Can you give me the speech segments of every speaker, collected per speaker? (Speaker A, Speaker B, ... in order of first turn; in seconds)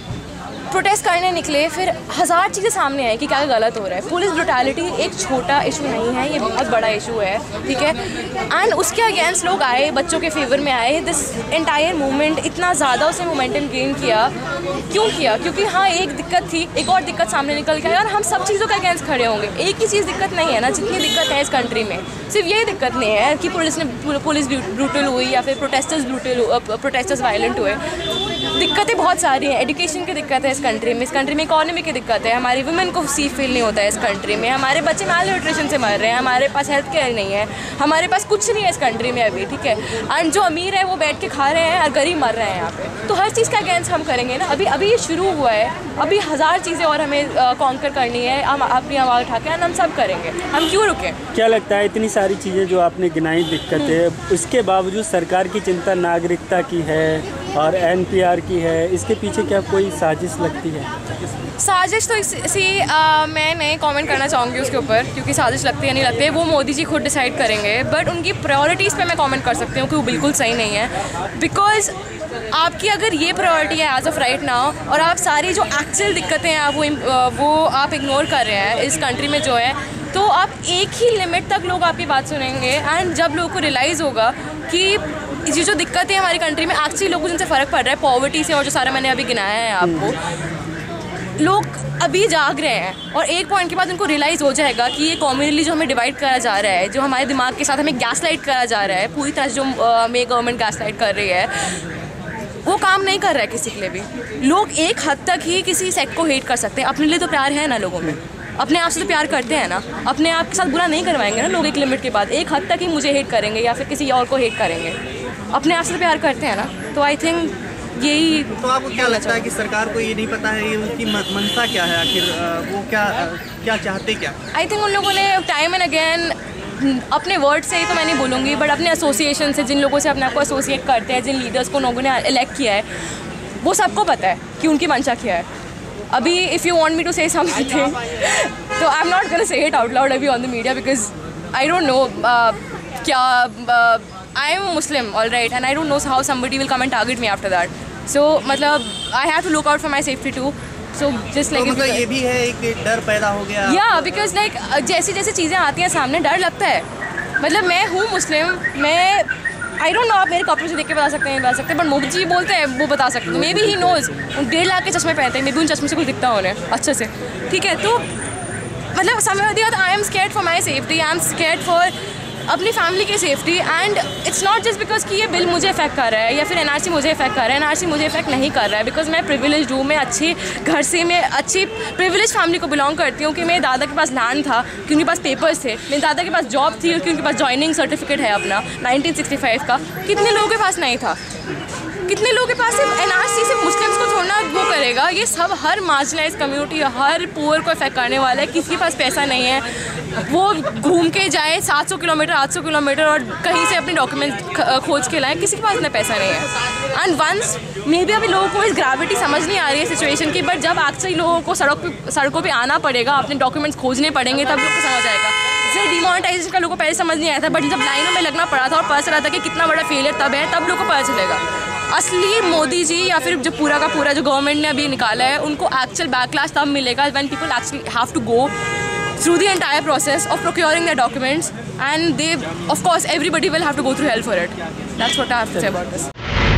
Speaker A: 0.7-14.3, 14.9-27.8, 28.5-51.2, 61.6-71.9, 72.5-90.2, 91.4-101.8, 102.6-115.0, 115.5-119.5, 124.5-132.8, 133.6-135.5, 136.1-152.1, 153.6-156.8, 157.4-168.1, 168.9-171.9, 172.4-191.2, 192.0-228.5, 229.2-236.1
Speaker B: 51.3-60.9, 163.3-163.8
Speaker C: 118.6-124.3, 151.5-153.8